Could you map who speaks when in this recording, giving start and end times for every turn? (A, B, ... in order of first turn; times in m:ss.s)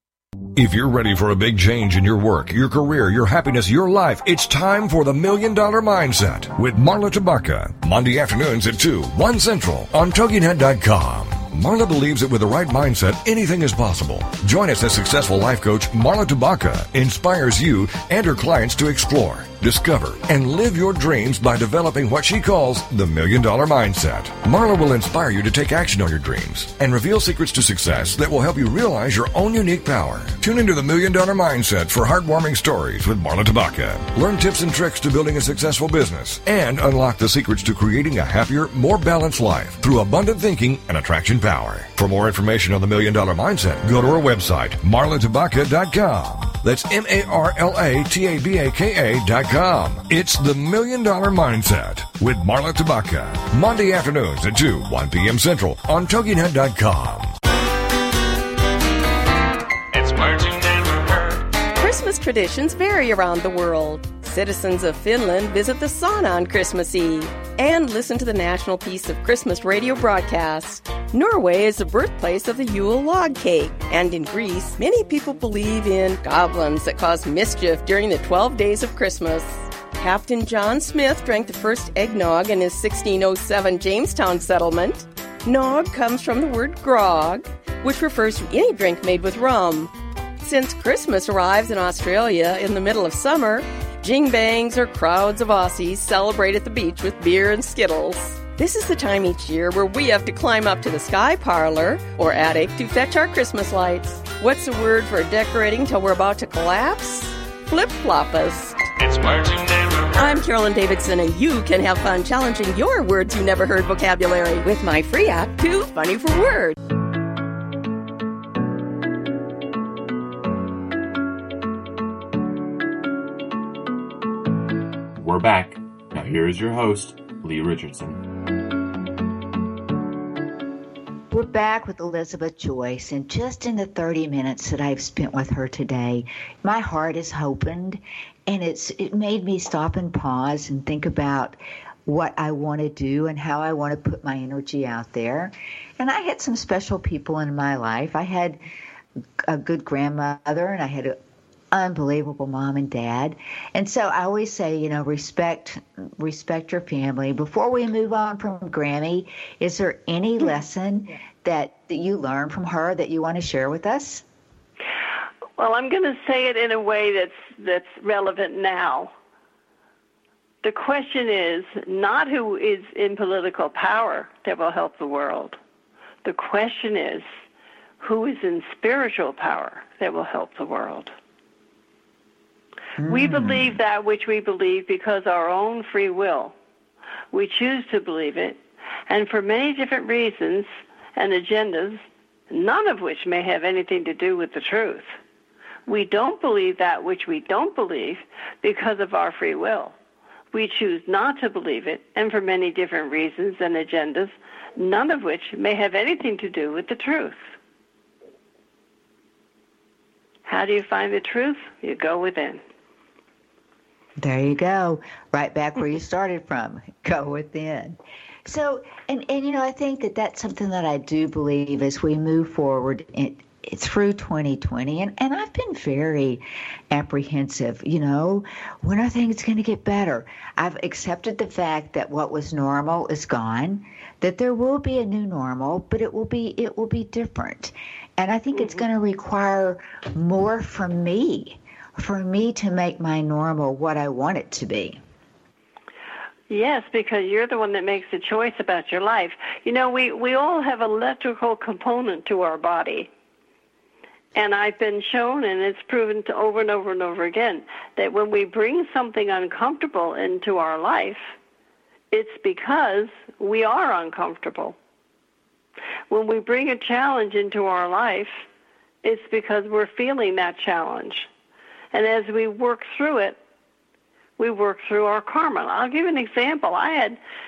0:00.6-0:57.4 A
0:59.9-1:01.4 B
1:01.8-1:48.8 C
1:49.0-1:50.4 B
1:50.2-1:56.8 C
2:05.2-2:08.2 D
2:11.3-2:28.6 E
2:29.4-2:31.2 E
2:31.7-2:44.2 E
2:45.6-2:49.1 F
2:50.6-2:55.6 F
2:56.2-2:57.3 F
2:58.0-3:01.1 F
3:03.0-3:03.8 E
3:03.1-3:06.5 F
3:07.3-3:15.1 F
3:15.9-3:20.0 F
3:20.5-3:27.4 F
3:30.5-3:32.6 F
3:34.2-4:05.0 E
3:58.6-3:58.8 F
4:06.5-4:13.1 F
4:14.4-4:21.3 F
4:22.1-4:24.8 F
4:26.1-4:28.4 F
4:29.0-4:31.3 F
4:31.9-4:33.4 F
4:34.4-4:37.2 F